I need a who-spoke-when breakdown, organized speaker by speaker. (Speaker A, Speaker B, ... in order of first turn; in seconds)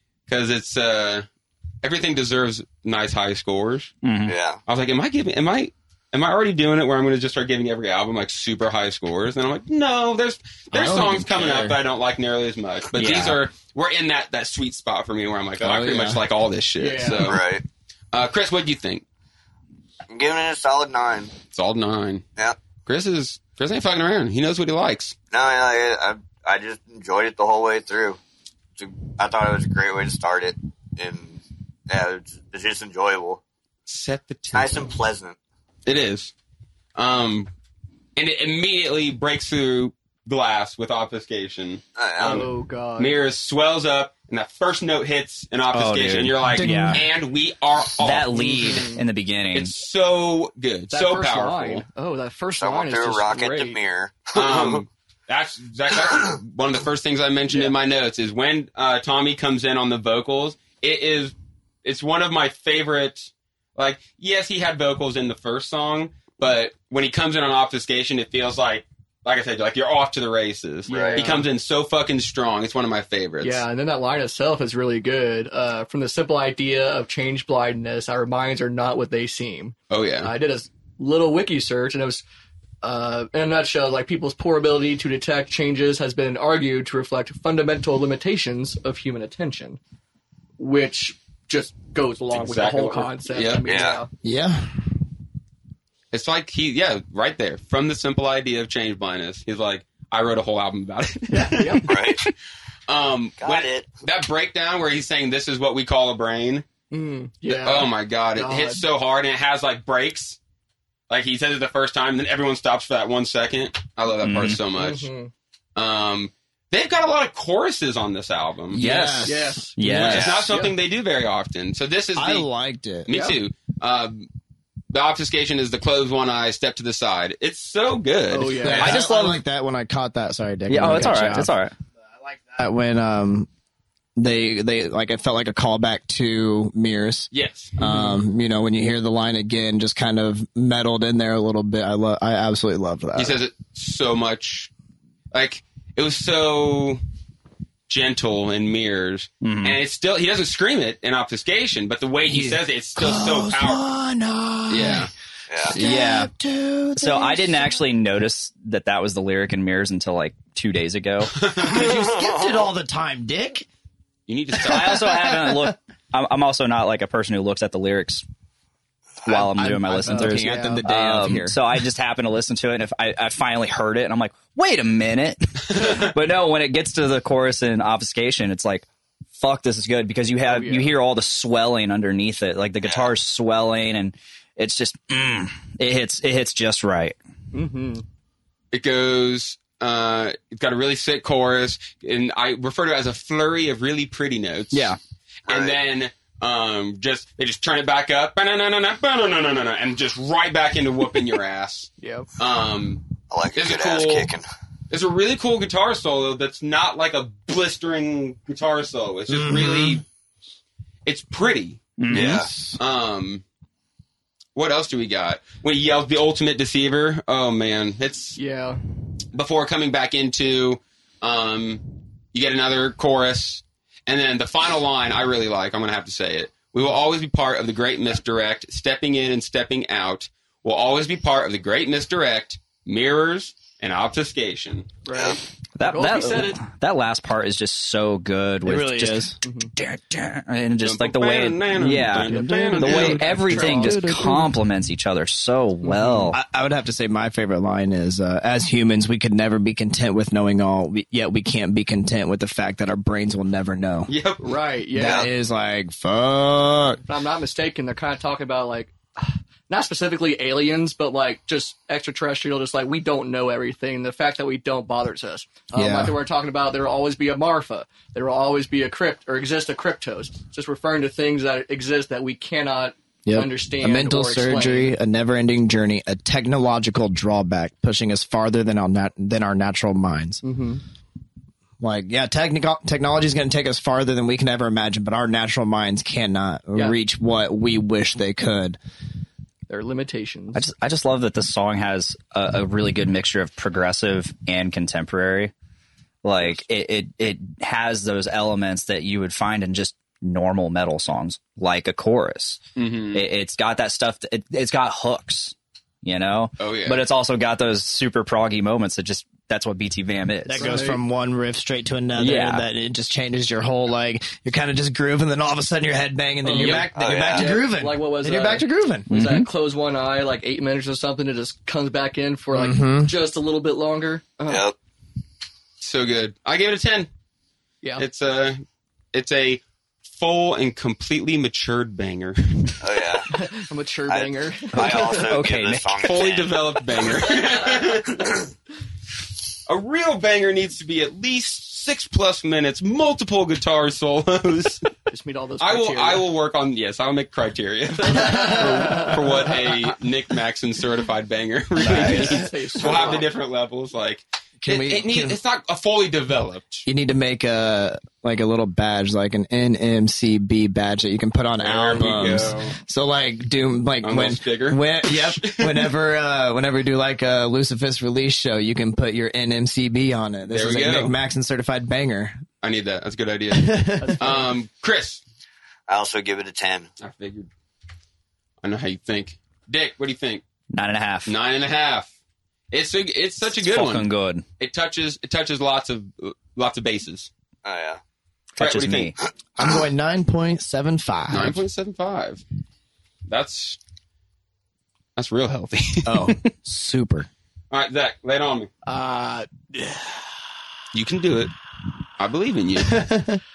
Speaker A: 0.3-1.3, 1.8-3.9, 4.7-17.4, 18.1-19.0, 21.5-22.2, 22.8-25.1, 33.9-35.0, 35.9-36.3, 37.0-37.5, 38.1-48.5, 49.5-51.9, 54.3-73.6, 79.9-80.3, 92.3-93.7, 96.1-102.3, 102.9-106.7, 107.5-110.4, 111.1-115.1, 115.8-118.8, 119.9-122.5, 123.0-124.3, 124.9-129.0, 137.3-137.7, 143.1-144.7, 145.3-147.0, 147.9-153.9, 154.7-155.1, 161.4-161.7, 164.3-165.1, 188.7-194.9, 195.5-204.3, 204.9-210.0, 211.1-213.4, 214.5-218.4, 219.3-234.9, 240.8-243.5, 254.1-254.5, 302.8-303.2, 306.6-307.0, 316.5-316.9, 325.8-327.1, 328.0-332.8, 336.0-338.4, 339.6-344.9, 345.6-356.9, 361.6-362.7, 364.0-365.9, 370.5-371.1, 372.6-375.2, 377.0-377.5, 378.6-380.4, 381.2-382.1, 382.7-384.1, 384.6-387.3, 388.6-389.1, 391.3-392.4, 393.3-393.8, 395.1-396.4, 397.7-398.7, 400.9-401.5, 402.2-403.0
Speaker B: 4.0-4.3, 12.9-13.4, 45.7-47.0, 48.0-49.7, 114.2-114.6, 118.8-120.5, 128.8-129.4, 130.7-131.7, 149.4-149.8, 155.7-156.3, 156.9-161.4, 164.6-168.2, 169.2-187.2, 194.7-195.0, 212.0-212.5, 235.8-246.4, 290.5-295.5, 296.2-302.6, 303.1-310.8, 312.1-312.6, 319.1-319.5, 334.7-336.2, 380.7-381.3, 383.5-384.4, 388.6-389.1
Speaker C: 4.3-4.6, 17.2-17.6, 20.1-21.3, 25.3-28.2, 28.8-33.4, 34.5-35.4, 42.0-42.5, 52.5-54.8, 70.9-71.2, 93.7-94.0, 101.8-102.3, 103.4-103.9, 120.1-120.5, 161.7-162.4, 182.8-183.1, 195.5-195.8, 203.3-204.4, 212.1-212.5, 235.1-235.4, 255.0-255.3, 316.9-317.5, 324.5-324.7, 332.8-333.3, 334.1-336.6, 375.9-376.9, 387.6-388.0
Speaker D: 10.7-11.8, 15.6-16.2, 46.5-47.1, 94.2-94.8, 118.7-120.2, 122.1-123.1, 128.6-131.6, 132.5-133.5, 134.2-143.4, 152.2-155.1, 155.7-157.8, 161.5-163.7, 164.6-165.7, 169.2-171.6, 209.3-210.0, 238.6-239.4, 242.3-244.5, 246.3-254.1, 254.9-257.0, 265.7-266.2, 273.2-280.4, 281.8-288.8, 310.5-319.1, 322.5-323.1, 351.9-352.3, 354.6-355.4, 356.9-372.4, 373.5-374.2, 389.6-391.6, 396.0-397.3, 402.9-403.4
Speaker E: 16.8-17.4, 42.2-43.1, 48.3-49.0, 50.9-53.8, 70.9-71.4, 73.4-82.2, 82.8-89.8, 90.6-94.1, 101.4-101.9, 106.9-108.8, 114.7-115.3, 119.2-120.7, 123.1-123.4, 128.3-129.0, 137.8-138.2, 170.1-170.8, 180.4-180.9, 187.5-188.0, 202.0-202.3, 218.4-218.8, 235.0-236.7, 239.4-239.7, 242.3-244.3, 245.8-246.3, 254.4-255.3, 257.0-274.9, 280.4-280.8, 289.7-290.6, 310.5-311.0, 316.4-324.6, 333.3-335.4, 345.1-346.2, 348.1-349.7, 351.8-353.3, 374.0-374.5, 398.9-400.5